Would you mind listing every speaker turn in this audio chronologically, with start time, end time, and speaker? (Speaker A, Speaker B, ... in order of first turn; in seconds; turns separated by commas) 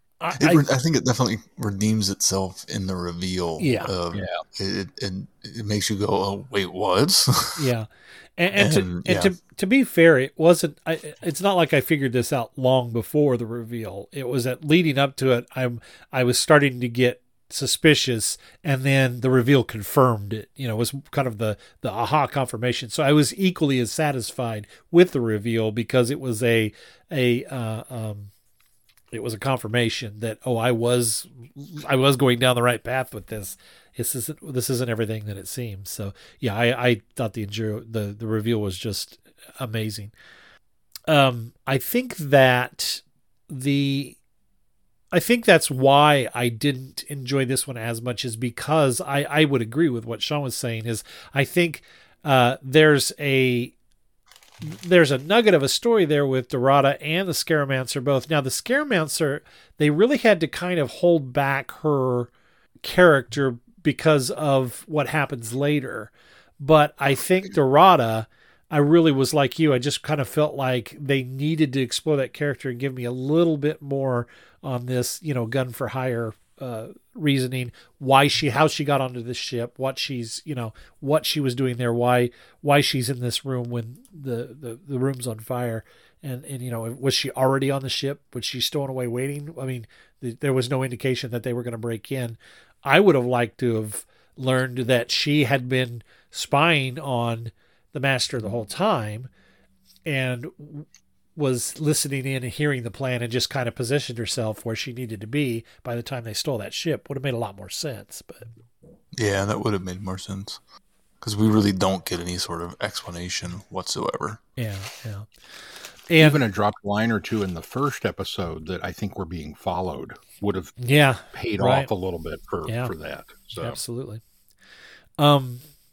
Speaker A: 0.2-0.7, Speaker B: 0.3-7.7, Speaker A: 3.6-3.9, Speaker C: 4.1-4.4, Speaker A: 7.5-28.3, Speaker B: 8.5-9.3, Speaker A: 29.1-40.1, Speaker A: 41.1-44.2, Speaker A: 45.1-53.7, Speaker A: 54.6-62.3, Speaker A: 62.8-99.3, Speaker A: 100.0-108.5, Speaker B: 109.1-110.6, Speaker B: 111.2-114.4, Speaker A: 114.6-115.3, Speaker A: 116.1-116.4, Speaker C: 116.2-120.8, Speaker A: 120.8-121.9, Speaker C: 121.3-123.8, Speaker A: 122.7-122.9, Speaker A: 123.6-124.2, Speaker A: 125.2-125.6